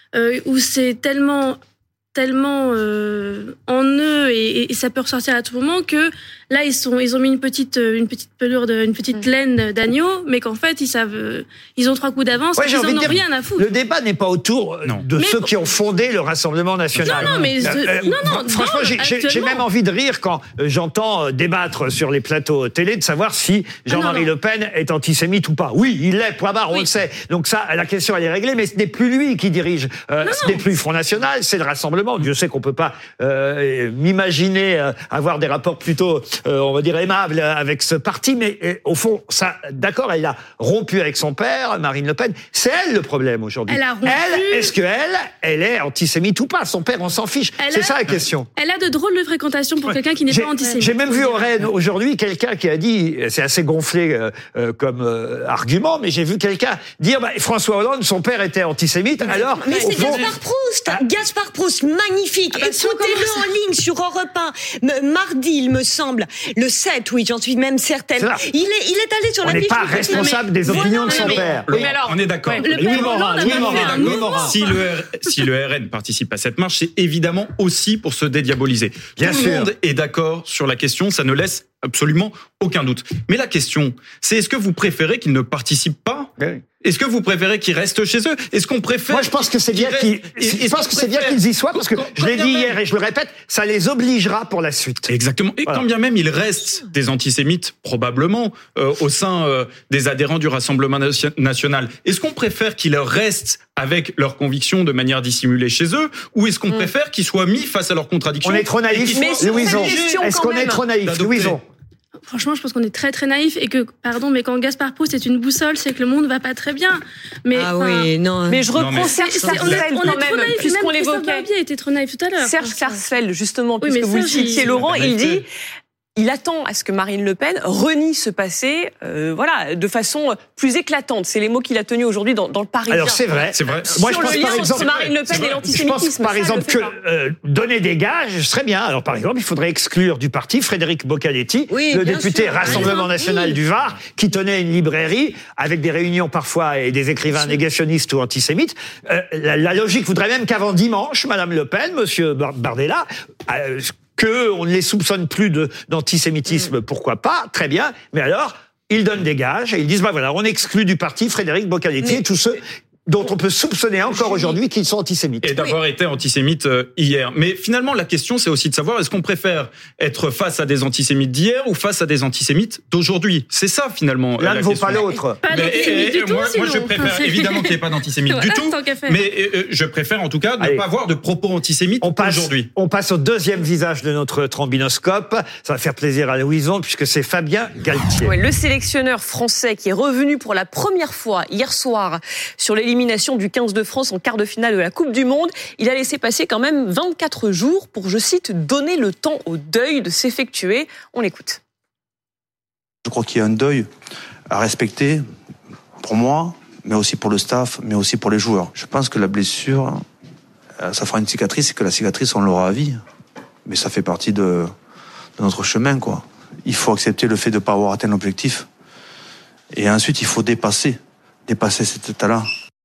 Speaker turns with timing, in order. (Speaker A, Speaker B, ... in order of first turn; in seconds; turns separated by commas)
Speaker A: 0.1-1.6, Speaker A: 2.1-13.7, Speaker B: 12.6-48.5, Speaker A: 15.2-15.5, Speaker C: 16.9-17.5, Speaker A: 17.0-19.6, Speaker A: 23.9-24.3, Speaker A: 30.2-30.6, Speaker A: 43.7-44.7, Speaker A: 47.6-51.5, Speaker B: 50.3-60.3, Speaker D: 59.2-71.4, Speaker A: 59.7-60.2, Speaker A: 62.6-63.2, Speaker B: 68.2-68.4, Speaker B: 69.4-71.9, Speaker A: 69.5-71.6, Speaker E: 71.2-72.7, Speaker C: 71.7-86.3, Speaker A: 72.6-74.8, Speaker B: 72.6-74.5, Speaker B: 79.2-79.7, Speaker C: 86.8-92.8, Speaker B: 89.1-95.1, Speaker C: 95.1-110.2, Speaker B: 108.4-111.6, Speaker E: 109.1-110.9, Speaker C: 111.0-111.6, Speaker A: 112.3-118.1, Speaker D: 117.5-119.8, Speaker E: 118.5-121.5, Speaker C: 118.7-120.1, Speaker A: 119.0-123.0, Speaker E: 122.3-125.5, Speaker A: 123.8-124.7, Speaker C: 124.5-125.4, Speaker E: 126.2-136.9, Speaker B: 132.9-165.6, Speaker C: 133.5-135.8, Speaker D: 141.7-143.2, Speaker A: 142.7-143.1, Speaker C: 165.4-182.7, Speaker B: 174.4-175.4, Speaker A: 175.4-177.7, Speaker A: 178.3-179.2, Speaker B: 180.6-180.8, Speaker B: 182.0-188.3, Speaker E: 188.2-201.6, Speaker F: 203.0-203.9, Speaker F: 204.5-205.2, Speaker F: 206.0-210.0, Speaker F: 210.8-213.0, Speaker F: 213.6-214.7, Speaker F: 215.4-218.7, Speaker F: 219.7-222.5